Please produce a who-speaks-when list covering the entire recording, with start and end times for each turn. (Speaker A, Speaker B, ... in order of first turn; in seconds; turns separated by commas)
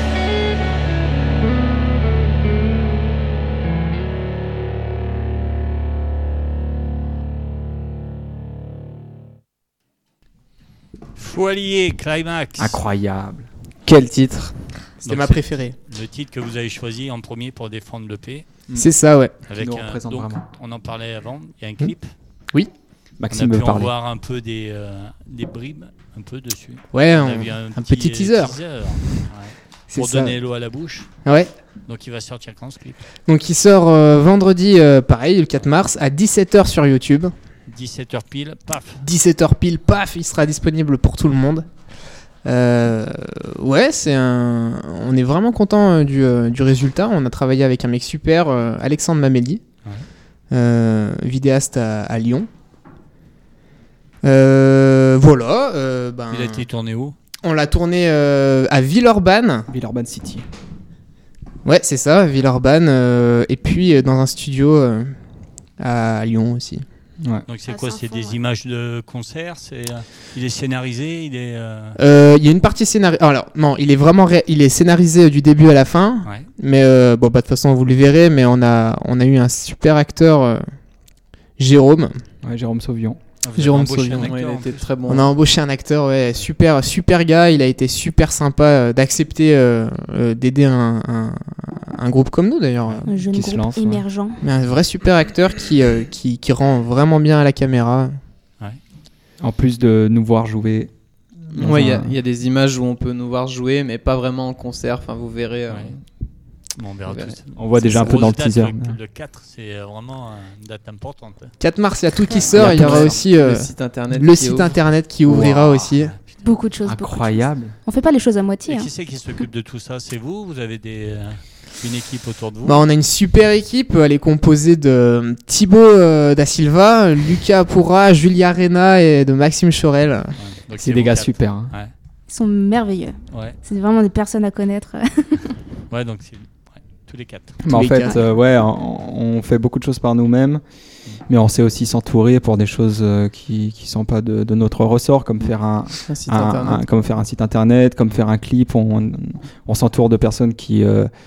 Speaker A: 11.2-12.8, Speaker B: 12.6-13.5, Speaker C: 13.8-14.6, Speaker D: 15.0-15.8, Speaker A: 15.0-18.5, Speaker D: 18.7-19.3, Speaker B: 19.4-20.4, Speaker A: 19.5-22.1, Speaker B: 23.2-23.9, Speaker A: 23.3-31.1, Speaker D: 26.9-28.6, Speaker D: 29.9-30.4, Speaker D: 31.2-31.5, Speaker A: 31.9-33.0, Speaker D: 33.2-37.3, Speaker A: 37.7-39.0, Speaker D: 39.0-41.7, Speaker D: 42.4-49.6, Speaker D: 50.5-52.5, Speaker D: 54.2-56.6, Speaker A: 56.3-57.1, Speaker D: 57.4-59.7, Speaker B: 59.7-60.5, Speaker D: 61.6-65.1, Speaker D: 65.8-66.8, Speaker A: 67.5-72.0, Speaker E: 67.7-68.4, Speaker D: 72.0-80.6, Speaker D: 81.6-82.2, Speaker B: 82.4-83.2, Speaker A: 83.4-84.9, Speaker D: 83.5-84.3, Speaker C: 84.1-85.3, Speaker D: 85.1-93.1, Speaker E: 93.1-94.4, Speaker B: 93.2-94.0, Speaker D: 94.4-98.2, Speaker B: 99.4-100.9, Speaker B: 101.5-102.1, Speaker C: 101.5-106.0, Speaker A: 105.7-105.9, Speaker A: 106.7-111.5, Speaker C: 107.1-107.4, Speaker B: 107.6-109.0, Speaker C: 108.0-108.2, Speaker D: 111.6-116.1, Speaker B: 112.5-113.2, Speaker C: 112.5-114.8, Speaker B: 115.2-115.7, Speaker A: 115.5-116.4, Speaker E: 116.4-118.9, Speaker B: 116.8-117.7, Speaker A: 118.7-122.8, Speaker D: 122.6-130.3, Speaker A: 130.4-131.9, Speaker B: 130.8-131.7, Speaker E: 132.3-135.5, Speaker A: 133.3-133.6, Speaker A: 135.9-137.6, Speaker B: 137.6-140.6, Speaker D: 137.7-138.2, Speaker B: 141.3-151.1, Speaker C: 146.1-146.8